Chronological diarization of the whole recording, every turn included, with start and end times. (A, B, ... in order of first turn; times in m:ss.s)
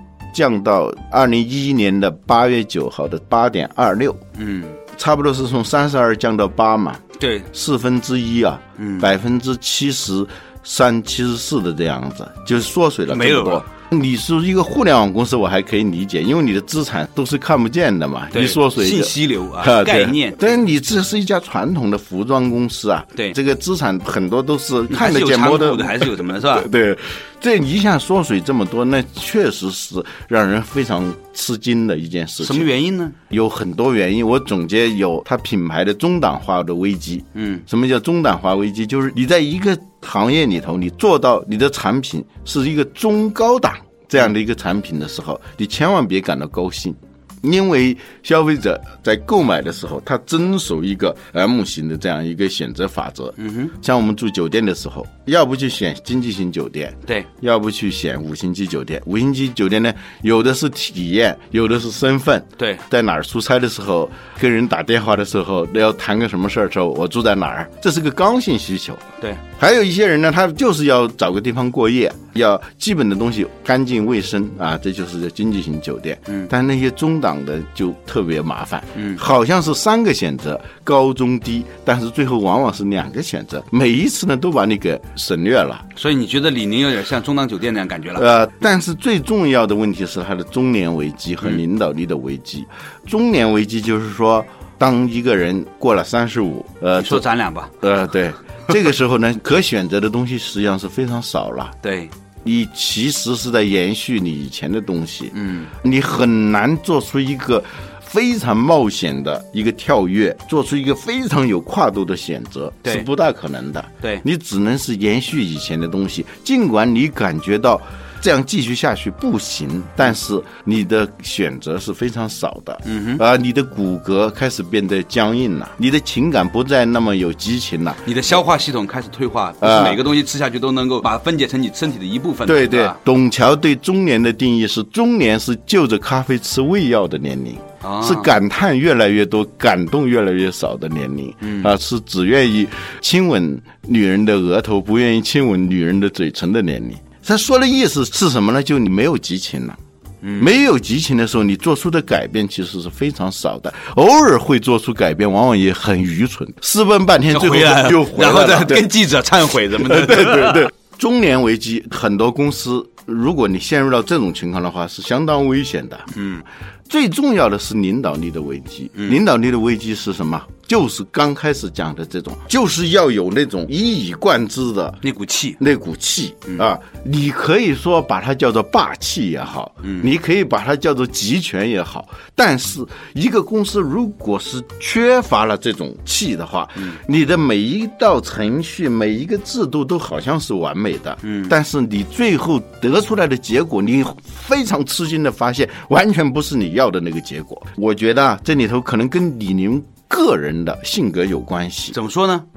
0:00.3-0:04.2 A
0:04.4-0:04.8 B
0:04.9-0:32.7 A
0:07.2-0:07.5 B
0:08.8-0:09.1 B
0:13.1-0:13.6 B
0:18.3-0:20.5 B
0:24.9-0:26.7 B
0:32.4-0:33.2 B
0:33.3-1:09.0 A
0:37.4-0:37.6 B
0:53.4-0:53.7 B
1:09.6-1:25.8 A
1:19.0-1:19.2 B
1:26.0-1:28.2 B
1:28.2-1:37.2 A
1:37.0-1:37.7 B
1:37.8-1:41.8 A
1:41.8-1:42.1 B
1:42.4-2:08.1 A
1:45.3-1:45.7 B
2:02.8-2:03.2 B
2:08.0-2:13.0 B
2:09.6-2:10.0 A
2:12.4-2:29.8 A
2:17.8-2:18.3 B
2:21.4-2:21.7 B
2:30.2-2:30.5 B
2:30.4-2:38.9 A
2:37.3-2:40.7 B
2:39.8-2:46.1 A
2:46.1-2:46.4 B
2:46.9-2:55.0 A
2:55.0-2:55.6 B
2:55.6-3:22.0 A
2:59.8-3:00.1 B
3:11.2-3:11.5 B
3:21.9-3:22.4 B